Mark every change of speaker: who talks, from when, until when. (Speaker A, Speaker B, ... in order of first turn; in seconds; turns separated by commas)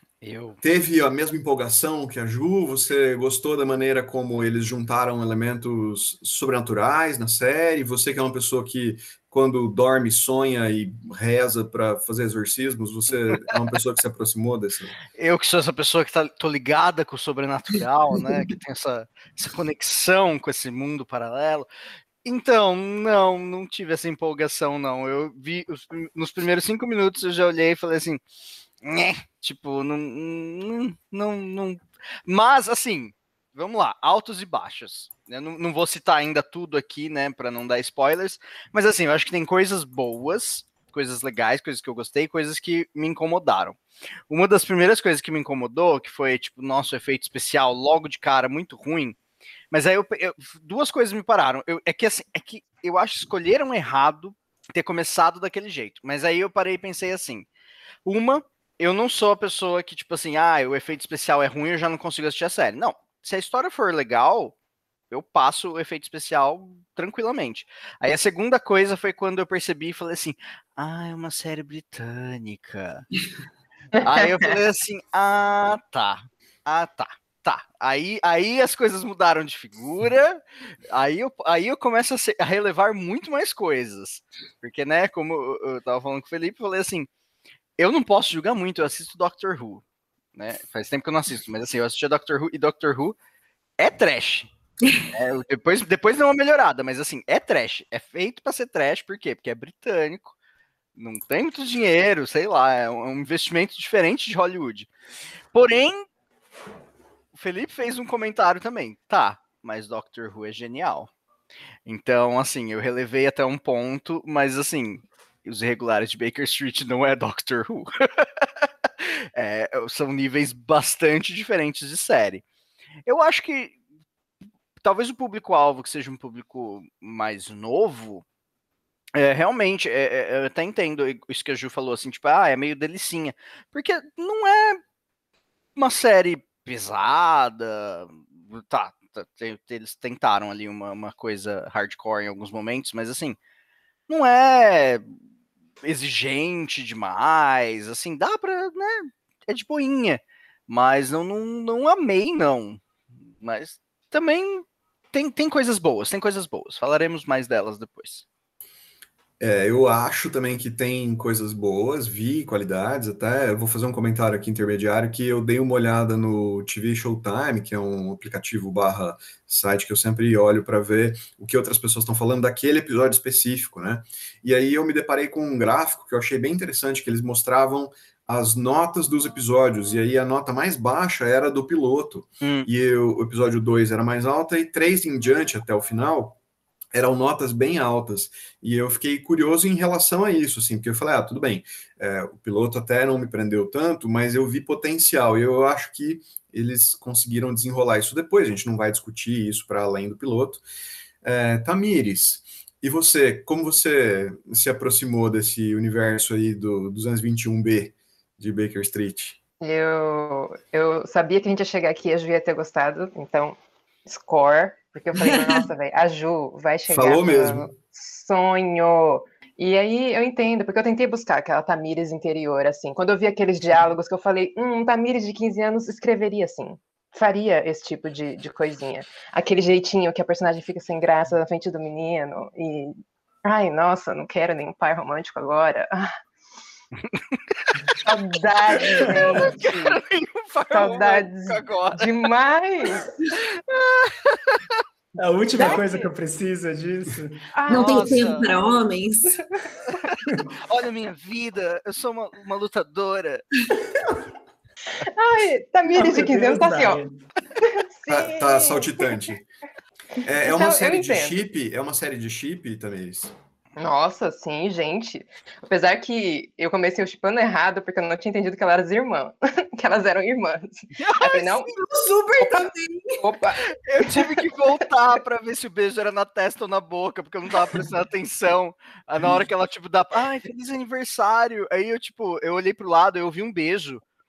Speaker A: 0.2-0.6, Speaker B: 0.6-15.0, Speaker A: 15.2-21.7, Speaker A: 22.2-28.2, Speaker A: 28.8-43.8, Speaker A: 44.3-49.2, Speaker A: 49.7-57.5, Speaker A: 58.0-64.5, Speaker A: 65.1-73.1, Speaker A: 74.0-80.4, Speaker C: 74.0-74.2, Speaker A: 80.9-87.1, Speaker A: 87.8-89.8, Speaker A: 90.3-93.2, Speaker A: 93.8-94.5, Speaker A: 95.1-100.3, Speaker A: 101.0-104.9, Speaker A: 105.5-106.0, Speaker A: 107.3-111.1, Speaker A: 111.8-118.5, Speaker A: 119.0-122.4, Speaker A: 123.0-123.8, Speaker A: 124.8-128.2, Speaker A: 129.2-134.8, Speaker A: 135.8-143.4, Speaker A: 144.1-145.1, Speaker A: 145.8-152.8, Speaker A: 153.4-158.2, Speaker B: 159.4-186.4, Speaker A: 182.4-182.7, Speaker B: 186.9-200.6, Speaker B: 201.2-209.4, Speaker C: 209.6-236.1, Speaker D: 215.2-215.6, Speaker B: 216.9-217.7, Speaker A: 237.1-238.0, Speaker C: 238.0-240.0, Speaker A: 238.7-242.3, Speaker C: 240.7-243.1, Speaker A: 243.5-244.8, Speaker E: 245.2-247.4, Speaker C: 245.6-246.1, Speaker C: 247.5-248.6, Speaker A: 247.7-248.5, Speaker D: 247.7-249.4, Speaker C: 249.5-250.1, Speaker A: 250.7-253.5, Speaker C: 255.0-257.0, Speaker E: 255.9-257.1, Speaker C: 257.6-259.1, Speaker B: 258.1-259.4, Speaker B: 260.2-263.3, Speaker C: 260.3-261.4, Speaker C: 263.8-271.7, Speaker A: 271.0-271.6, Speaker D: 271.3-273.2, Speaker C: 273.2-273.6, Speaker A: 273.6-284.0, Speaker C: 274.1-274.4